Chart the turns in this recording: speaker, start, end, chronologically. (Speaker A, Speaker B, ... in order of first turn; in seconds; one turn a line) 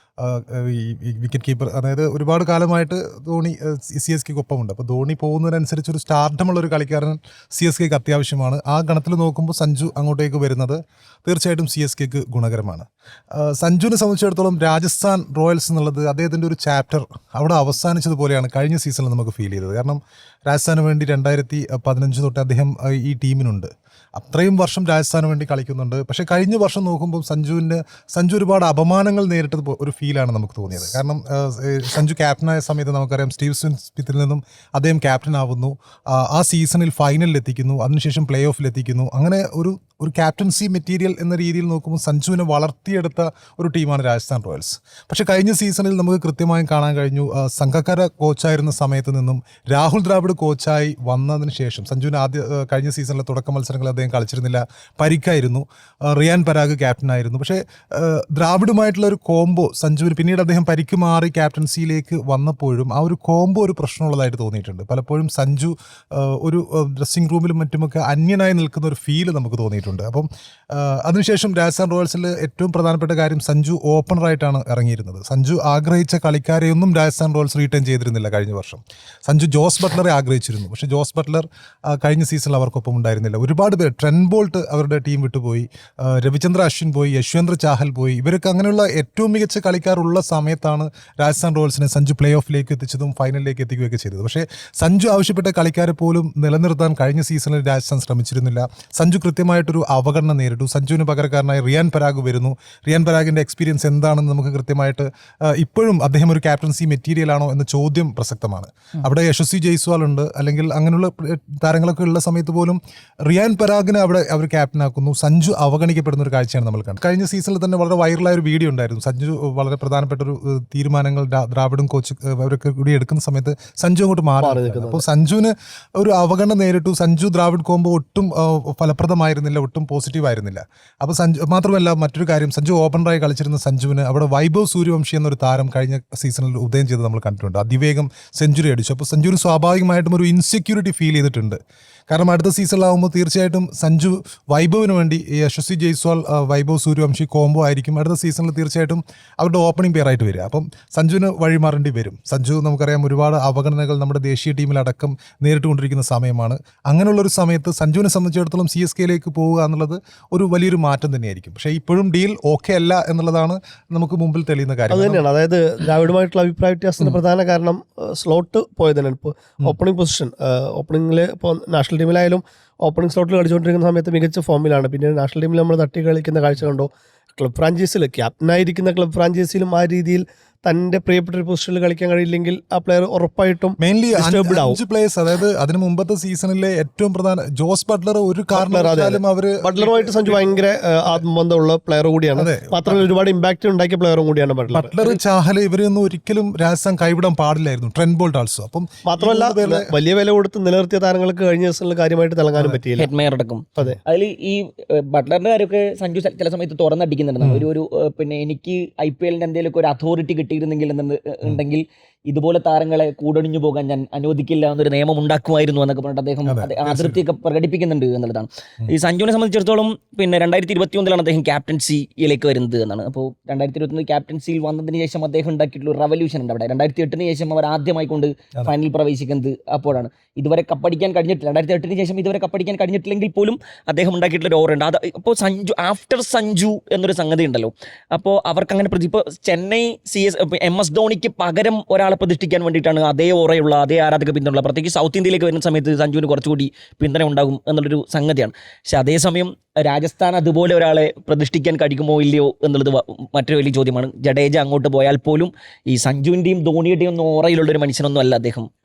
Speaker A: 0.2-141.6
Speaker B: 124.4-125.0
Speaker A: 142.1-165.2
Speaker B: 164.9-184.8
Speaker A: 183.8-191.2
Speaker B: 188.5-194.9
Speaker A: 192.3-193.1
Speaker A: 194.7-199.9
Speaker B: 199.1-203.1
Speaker C: 203.0-258.7
Speaker A: 207.4-207.7
Speaker A: 216.5-217.2